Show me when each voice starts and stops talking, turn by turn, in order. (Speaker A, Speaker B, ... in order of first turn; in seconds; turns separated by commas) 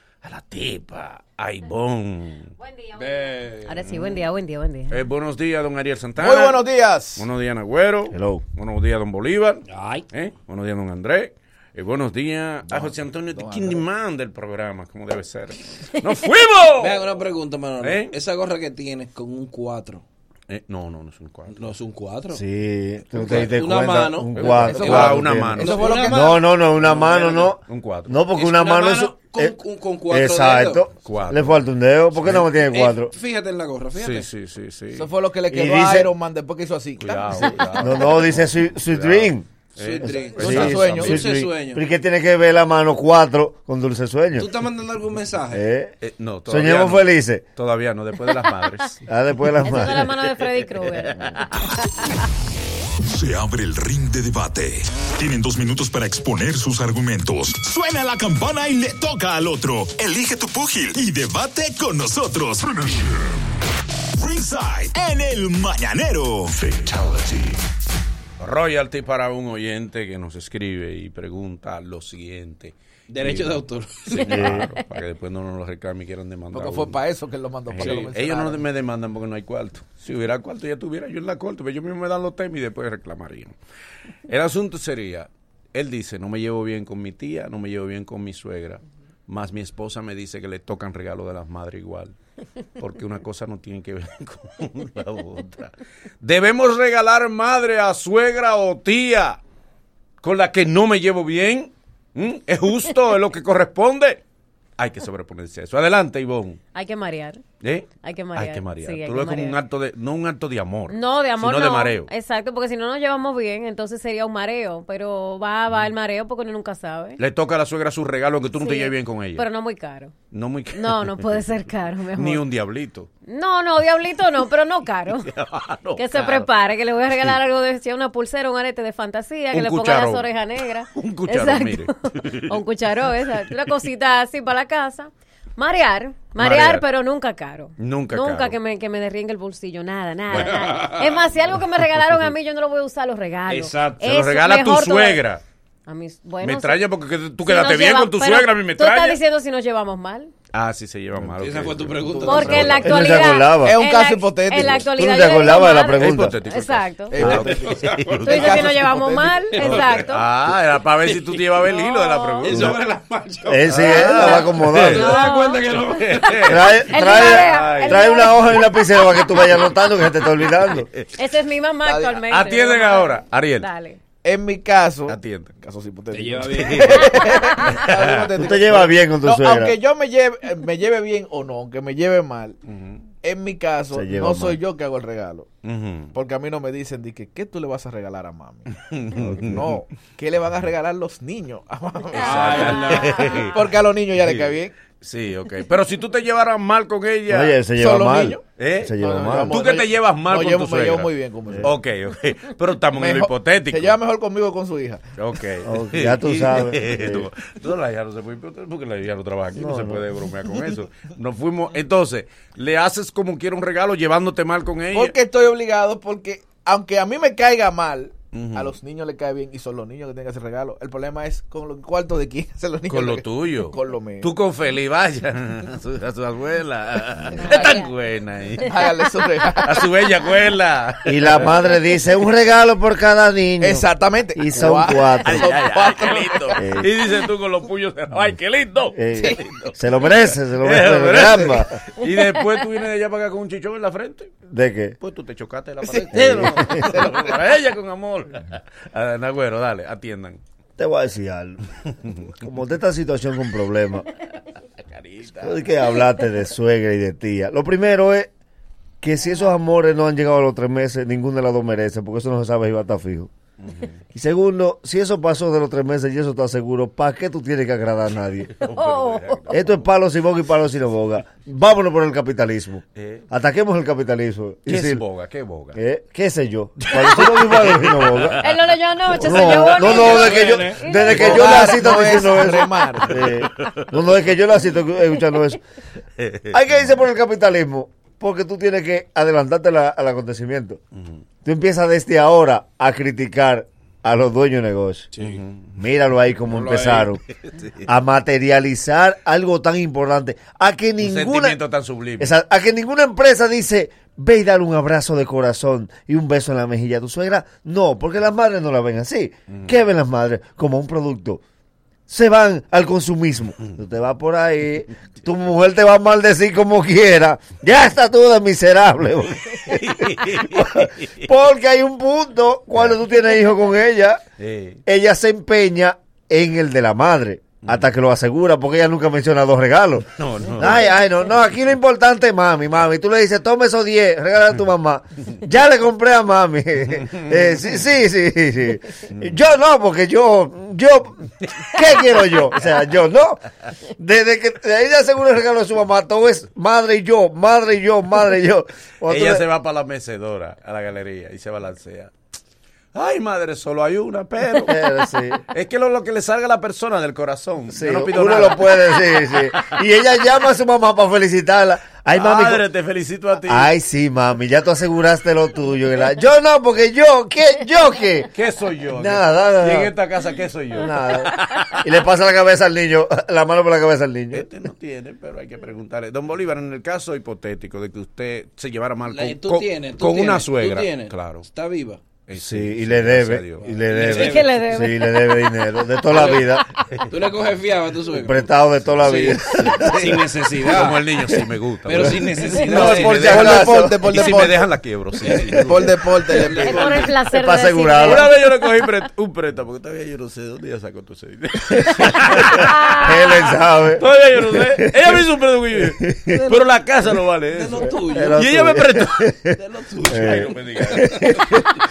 Speaker A: 0.2-2.5, Speaker B: 2.6-5.0, Speaker C: 3.0-3.9, Speaker A: 4.9-6.6, Speaker D: 6.2-7.3, Speaker A: 7.2-17.0, Speaker E: 8.1-8.4, Speaker C: 9.7-10.0, Speaker D: 12.7-13.8, Speaker C: 16.8-20.0, Speaker A: 17.8-18.1, Speaker A: 20.5-21.7, Speaker C: 21.5-22.4, Speaker E: 22.3-29.5, Speaker A: 23.2-23.6, Speaker C: 23.2-24.3, Speaker A: 24.3-26.1, Speaker D: 24.5-26.2, Speaker C: 25.6-26.4, Speaker A: 26.8-28.2, Speaker C: 27.0-27.5, Speaker C: 28.4-30.8, Speaker E: 30.1-33.1, Speaker A: 31.0-31.6, Speaker A: 32.1-32.5, Speaker C: 32.7-34.3, Speaker A: 34.0-35.1, Speaker D: 34.9-37.9, Speaker E: 35.5-36.1, Speaker A: 37.0-41.2, Speaker E: 37.8-39.5, Speaker C: 39.8-41.8, Speaker E: 40.3-44.5, Speaker D: 40.4-41.2, Speaker C: 44.4-45.6, Speaker E: 45.5-45.9, Speaker A: 46.0-49.0, Speaker E: 46.5-47.4, Speaker E: 49.1-50.1, Speaker B: 49.6-51.4, Speaker A: 50.4-51.7, Speaker F: 53.1-63.2, Speaker F: 64.2-67.0, Speaker A: 68.4-77.0, Speaker C: 73.1-74.4, Speaker B: 74.2-74.8, Speaker E: 74.3-74.6, Speaker D: 76.5-78.6, Speaker A: 77.7-83.5, Speaker C: 77.8-78.1, Speaker A: 84.3-92.1, Speaker A: 92.8-99.4, Speaker A: 100.2-104.2, Speaker A: 104.8-106.6, Speaker B: 106.7-107.4, Speaker A: 107.6-112.1, Speaker B: 108.0-109.6, Speaker B: 110.9-117.2, Speaker A: 117.2-119.5, Speaker B: 118.6-120.1, Speaker A: 120.3-121.3, Speaker B: 120.8-122.4, Speaker A: 122.1-123.1, Speaker B: 123.2-125.3, Speaker A: 125.2-126.5, Speaker B: 126.0-131.9, Speaker A: 129.5-130.3, Speaker A: 130.9-132.6, Speaker B: 132.5-145.2, Speaker A: 136.4-136.8, Speaker A: 137.8-138.6, Speaker C: 140.4-141.0, Speaker C: 143.5-144.0, Speaker A: 144.0-145.4, Speaker B: 145.9-146.8, Speaker A: 146.4-149.2, Speaker B: 147.4-150.3, Speaker A: 150.5-152.9, Speaker C: 151.4-152.6, Speaker D: 152.2-152.8, Speaker B: 152.2-157.2, Speaker E: 152.8-153.8, Speaker D: 153.6-154.9, Speaker E: 154.9-156.3, Speaker A: 155.8-158.8, Speaker D: 157.1-160.0, Speaker C: 157.4-158.8, Speaker B: 158.2-160.3, Speaker A: 159.6-162.8, Speaker B: 161.7-162.5, Speaker C: 162.4-166.3, Speaker E: 163.4-165.1, Speaker A: 163.7-165.1, Speaker B: 164.9-168.6, Speaker A: 165.7-168.4, Speaker E: 166.4-170.9, Speaker A: 170.7-171.0, Speaker B: 171.2-174.0, Speaker D: 171.8-172.2, Speaker A: 172.3-173.7, Speaker D: 174.2-182.6, Speaker A: 175.1-175.5, Speaker C: 176.1-177.0, Speaker A: 176.5-177.1, Speaker B: 177.2-177.6, Speaker A: 177.7-178.3, Speaker E: 178.4-179.7, Speaker A: 182.7-183.0, Speaker D: 183.2-185.5, Speaker E: 183.9-184.6, Speaker A: 185.6-186.1, Speaker D: 186.1-188.7, Speaker A: 188.8-189.8, Speaker E: 189.2-189.6, Speaker D: 189.2-194.7, Speaker C: 192.2-193.2, Speaker A: 192.2-193.6, Speaker B: 192.6-193.6, Speaker A: 194.2-197.6, Speaker E: 197.3-199.6, Speaker D: 197.8-198.4, Speaker A: 198.6-203.9, Speaker D: 199.0-201.7, Speaker D: 202.9-205.0, Speaker A: 205.2-215.1, Speaker E: 205.6-207.3, Speaker E: 209.6-210.0, Speaker D: 214.9-224.3, Speaker A: 218.3-218.7, Speaker A: 222.9-228.8, Speaker B: 227.4-227.9, Speaker D: 228.6-229.9, Speaker A: 229.6-231.5, Speaker E: 231.1-235.5, Speaker D: 233.6-236.6, Speaker A: 235.2-244.3, Speaker E: 236.6-236.9, Speaker E: 238.9-241.7, Speaker E: 244.5-245.0, Speaker A: 245.0-250.4, Speaker E: 246.1-247.0, Speaker E: 250.8-251.6, Speaker E: 252.4-254.0, Speaker A: 254.9-255.6, Speaker E: 255.4-258.3, Speaker E: 259.0-263.3, Speaker A: 263.6-263.9, Speaker E: 264.1-268.5, Speaker A: 268.5-269.8, Speaker B: 268.7-269.5, Speaker E: 269.5-275.0, Speaker A: 273.0-273.2, Speaker A: 274.7-275.8, Speaker E: 275.7-278.4, Speaker A: 277.0-278.6, Speaker B: 278.4-281.3, Speaker E: 279.2-285.6, Speaker C: 279.7-280.9, Speaker D: 281.1-283.3, Speaker A: 281.2-281.5, Speaker A: 283.1-283.9, Speaker A: 286.2-286.6, Speaker E: 286.5-290.8, Speaker A: 290.9-291.2, Speaker E: 291.4-295.1, Speaker C: 295.1-295.4, Speaker A: 295.2-295.8, Speaker E: 295.8-297.2, Speaker A: 296.5-297.9, Speaker E: 297.9-301.6, Speaker A: 301.0-302.4, Speaker E: 302.2-311.4, Speaker E: 312.1-324.2, Speaker A: 319.5-321.1, Speaker A: 324.4-324.8, Speaker E: 324.9-343.4, Speaker A: 330.2-330.9, Speaker A: 337.1-337.6, Speaker E: 344.0-349.4, Speaker A: 349.1-352.1, Speaker A: 352.9-354.8, Speaker E: 354.6-355.4, Speaker A: 355.5-359.6, Speaker E: 357.7-362.6, Speaker A: 362.1-363.7, Speaker E: 363.4-368.3, Speaker A: 368.3-371.9, Speaker E: 368.9-369.9, Speaker E: 370.7-374.4, Speaker A: 374.3-381.5, Speaker C: 379.1-382.1, Speaker A: 382.2-384.1, Speaker E: 382.3-386.6, Speaker C: 383.6-384.4, Speaker B: 384.0-385.1, Speaker C: 386.1-386.5, Speaker C: 387.1-388.5, Speaker E: 388.1-389.9, Speaker C: 389.0-391.1, Speaker A: 389.0-390.0, Speaker A: 390.6-396.7, Speaker C: 391.9-393.3, Speaker D: 392.6-394.6, Speaker E: 392.7-394.4, Speaker C: 395.3-395.6, Speaker D: 395.6-396.9, Speaker C: 396.3-397.1, Speaker B: 396.6-398.3, Speaker E: 397.3-398.3, Speaker A: 398.0-403.1, Speaker E: 401.9-405.2, Speaker B: 402.6-403.1, Speaker A: 404.0-409.4, Speaker E: 405.8-406.4, Speaker C: 407.5-408.4, Speaker E: 408.1-409.6, Speaker C: 409.6-410.5, Speaker A: 410.0-411.5, Speaker E: 410.1-411.5